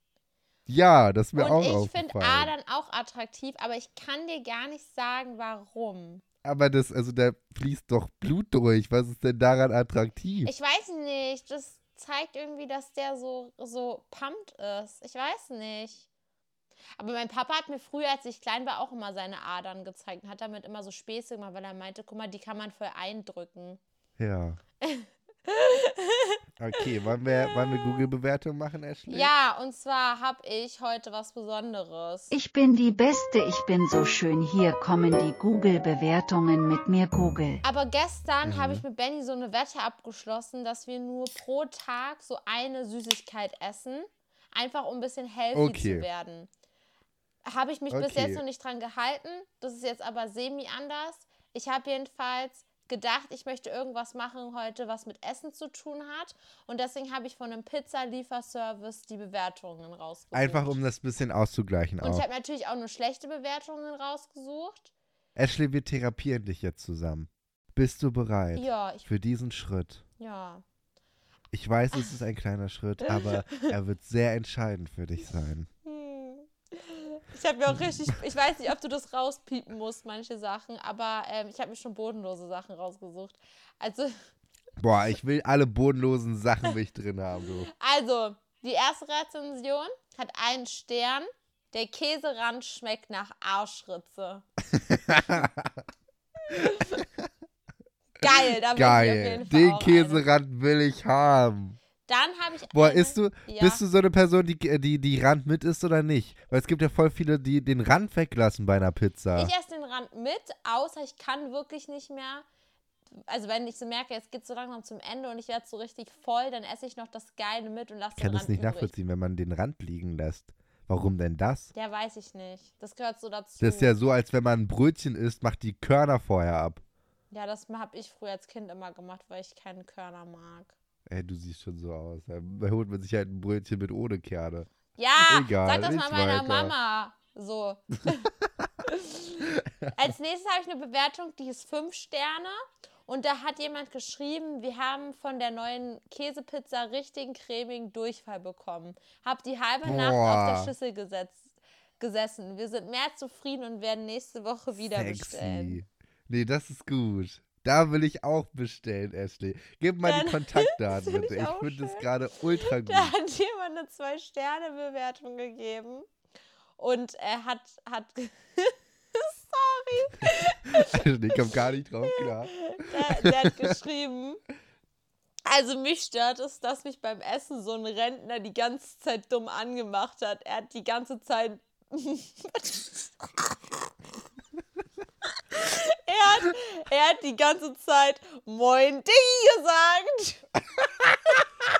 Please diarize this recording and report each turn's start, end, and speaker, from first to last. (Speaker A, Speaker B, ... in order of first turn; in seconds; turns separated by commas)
Speaker A: 0.7-2.5, Speaker B: 1.4-6.2, Speaker A: 6.4-10.5, Speaker B: 10.4-16.1, Speaker B: 17.0-23.8, Speaker A: 24.2-24.6, Speaker B: 24.8-26.4, Speaker A: 26.6-29.3, Speaker B: 29.1-32.3, Speaker C: 32.3-37.6, Speaker B: 37.6-46.5, Speaker A: 38.4-38.8, Speaker A: 45.5-46.1, Speaker B: 47.4-60.8, Speaker A: 47.9-48.4, Speaker A: 60.3-62.2, Speaker B: 62.0-64.9, Speaker A: 65.3-70.0, Speaker B: 68.5-69.1, Speaker B: 70.2-70.6, Speaker A: 71.5-75.7, Speaker B: 73.1-73.6, Speaker B: 75.8-84.2, Speaker A: 84.8-87.7, Speaker B: 87.7-94.4, Speaker A: 94.7-95.8, Speaker B: 96.5-97.0, Speaker B: 98.2-100.2, Speaker A: 98.3-101.8, Speaker B: 102.1-103.8, Speaker A: 102.7-109.5, Speaker B: 109.3-112.4, Speaker B: 113.1-118.9, Speaker A: 118.2-121.7, Speaker B: 121.7-124.0, Speaker A: 123.6-126.8, Speaker B: 127.3-130.7, Speaker A: 131.1-134.7, Speaker B: 134.9-138.3, Speaker A: 135.2-136.7, Speaker A: 138.4-138.7, Speaker B: 138.8-155.8, Speaker A: 139.6-139.9, Speaker A: 149.8-150.7, Speaker A: 154.8-163.1, Speaker B: 160.0-162.1, Speaker B: 162.6-166.1, Speaker B: 166.8-174.4, Speaker A: 170.7-173.7, Speaker B: 175.4-183.9, Speaker B: 185.5-190.4